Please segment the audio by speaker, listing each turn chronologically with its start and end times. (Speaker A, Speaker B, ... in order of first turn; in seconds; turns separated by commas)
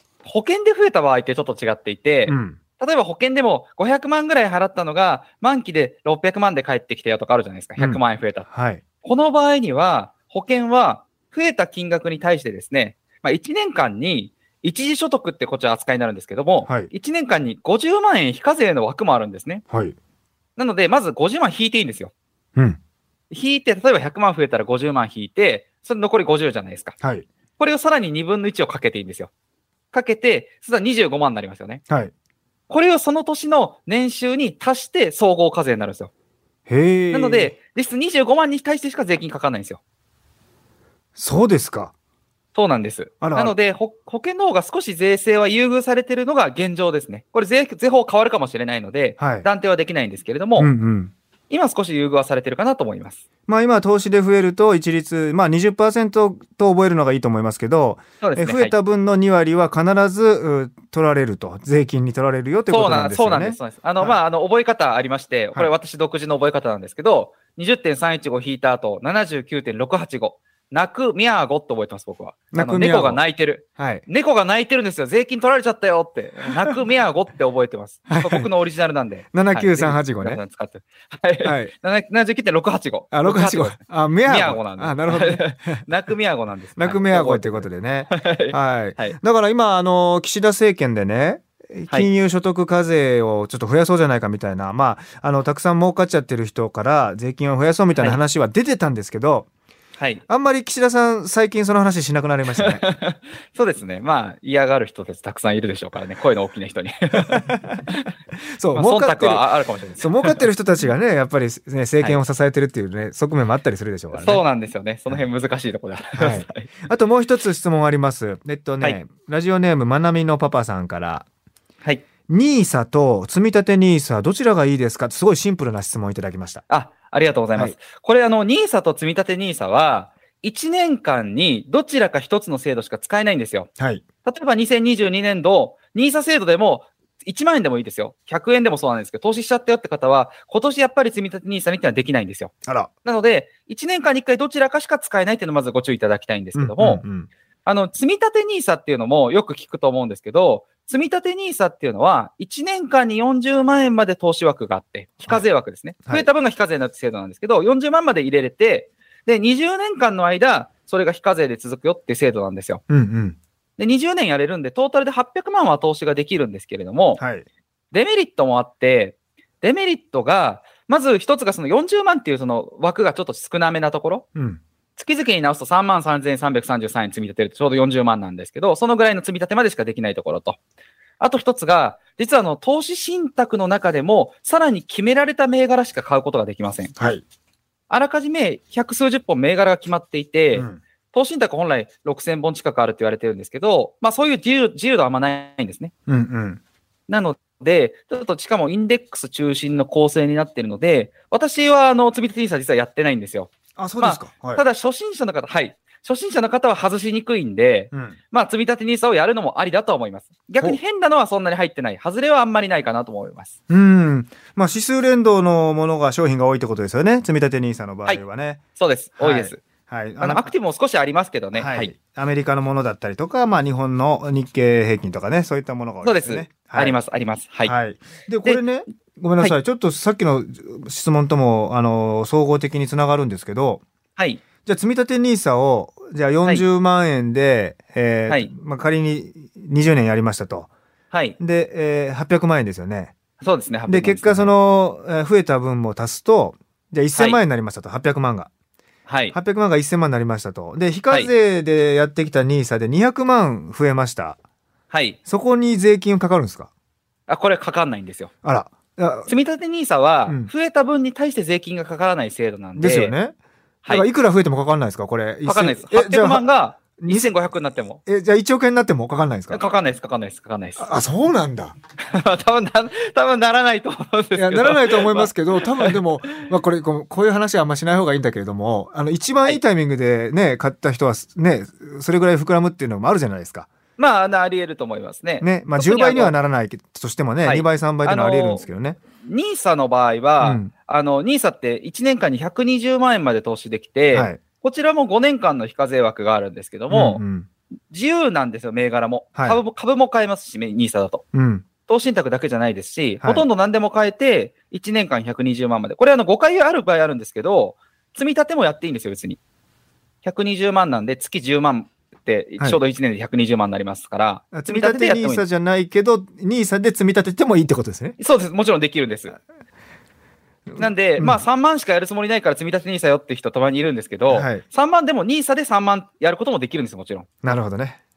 Speaker A: 0.2-8.5, Speaker B: 2.3-2.6, Speaker B: 7.8-8.8, Speaker A: 9.0-19.6, Speaker B: 19.7-19.9, Speaker A: 20.6-22.1, Speaker A: 23.3-26.9, Speaker B: 27.0-27.2, Speaker A: 27.6-29.3, Speaker A: 29.9-31.8, Speaker A: 32.7-36.1, Speaker B: 36.7-37.5, Speaker A: 37.1-39.8, Speaker B: 41.2-41.9, Speaker A: 42.5-50.7, Speaker B: 43.2-43.5, Speaker B: 49.2-49.5, Speaker B: 50.6-51.1, Speaker A: 51.5-53.2, Speaker B: 53.5-64.2, Speaker A: 58.2-58.7, Speaker A: 62.7-89.2, Speaker B: 72.5-73.2, Speaker B: 73.8-74.0, Speaker B: 78.1-78.5, Speaker B: 79.3-80.4, Speaker B: 81.4-81.7, Speaker B: 83.1-85.9, Speaker B: 86.8-99.5, Speaker A: 100.0-100.2, Speaker B: 100.3-102.8, Speaker A: 102.6-108.1, Speaker B: 107.3-107.8, Speaker B: 108.6-109.5, Speaker A: 108.7-110.4, Speaker B: 110.0-114.4, Speaker A: 114.1-116.7, Speaker B: 116.1-121.2, Speaker B: 122.3-126.6, Speaker A: 126.7-133.7, Speaker B: 133.8-134.0, Speaker A: 134.2-142.5, Speaker A: 143.0-147.0, Speaker B: 146.6-147.3, Speaker A: 147.6-162.8, Speaker B: 162.9-163.4, Speaker A: 163.8-167.2, Speaker B: 167.2-167.4, Speaker A: 167.9-174.2, Speaker B: 174.3-174.6, Speaker A: 174.9-180.6, Speaker A: 181.2-186.9, Speaker B: 187.0-187.2, Speaker A: 187.9-195.9, Speaker B: 190.5-190.8, Speaker B: 196.1-196.6, Speaker A: 197.1-213.5, Speaker B: 203.8-204.6, Speaker B: 213.7-218.6, Speaker A: 218.8-219.6, Speaker B: 219.2-220.5, Speaker A: 220.2-221.9, Speaker B: 221.5-227.0, Speaker A: 226.0-227.8, Speaker B: 227.6-233.8, Speaker A: 228.4-228.7, Speaker A: 234.2-234.4, Speaker B: 234.6-240.7, Speaker A: 241.1-241.4, Speaker B: 241.4-243.1, Speaker A: 243.4-244.5, Speaker B: 243.9-248.5, Speaker A: 247.2-247.4, Speaker A: 249.1-249.3, Speaker B: 249.3-254.4, Speaker A: 254.9-255.2, Speaker B: 255.2-256.7, Speaker A: 257.3-258.3, Speaker B: 258.4-259.3, Speaker A: 259.3-263.1, Speaker B: 262.8-263.3, Speaker B: 263.9-266.4, Speaker A: 265.4-268.0, Speaker B: 267.0-267.4, Speaker B: 268.1-269.6, Speaker A: 269.5-270.9, Speaker B: 270.8-271.7, Speaker A: 272.1-276.0, Speaker B: 274.3-283.7, Speaker A: 284.0-286.4, Speaker B: 285.4-289.0, Speaker A: 287.4-288.7, Speaker A: 289.2-297.2, Speaker B: 290.4-290.7, Speaker B: 294.1-294.4, Speaker B: 296.9-297.5, Speaker A: 297.9-301.2, Speaker B: 301.3-301.6, Speaker A: 301.9-309.4, Speaker B: 303.2-303.4, Speaker A: 310.2-315.4, Speaker B: 314.5-318.2, Speaker A: 318.2-319.4, Speaker B: 320.7-321.4, Speaker A: 320.8-327.6, Speaker B: 324.3-324.6, Speaker B: 327.4-328.0